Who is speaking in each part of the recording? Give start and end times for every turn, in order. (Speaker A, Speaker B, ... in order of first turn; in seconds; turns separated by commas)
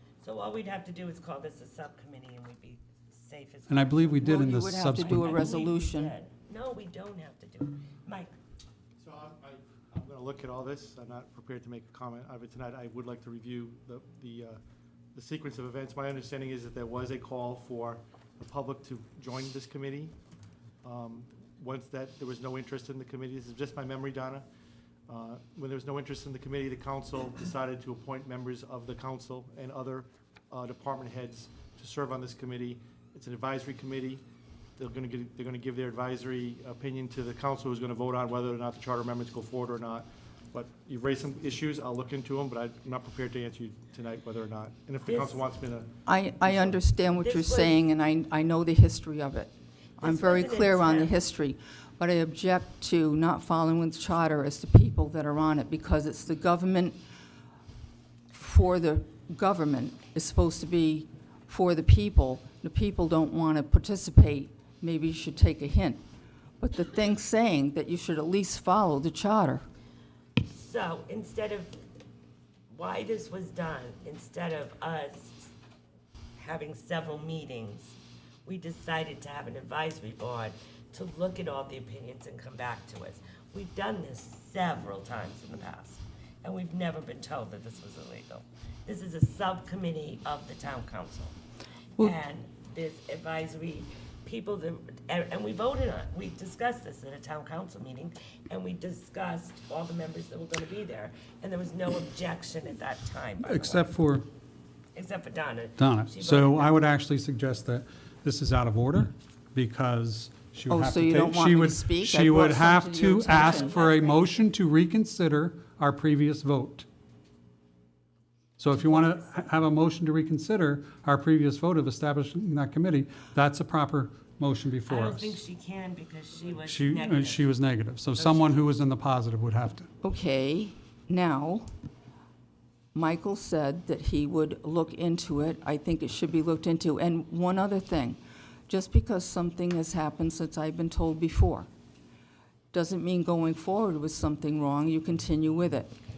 Speaker A: 0.2-8.3, Speaker B: 3.7-5.5, Speaker C: 4.2-6.1, Speaker D: 9.0-14.6, Speaker D: 15.2-20.1, Speaker D: 20.8-24.5, Speaker D: 25.1-34.2, Speaker D: 34.8-46.8, Speaker A: 45.0-45.4, Speaker C: 46.1-57.0, Speaker A: 47.2-47.8, Speaker A: 50.0-51.1, Speaker C: 58.3-66.0, Speaker C: 66.6-69.7, Speaker A: 70.4-71.8, Speaker A: 72.7-75.5, Speaker A: 76.4-91.4, Speaker A: 92.0-103.9, Speaker B: 103.4-104.3, Speaker A: 105.0-106.8, Speaker B: 105.8-116.9, Speaker C: 110.7-113.8, Speaker A: 113.3-114.3, Speaker B: 118.6-125.4, Speaker A: 124.9-127.5, Speaker B: 126.6-129.9, Speaker A: 128.2-128.6, Speaker C: 130.0-131.7, Speaker C: 132.9-141.7, Speaker C: 142.7-145.9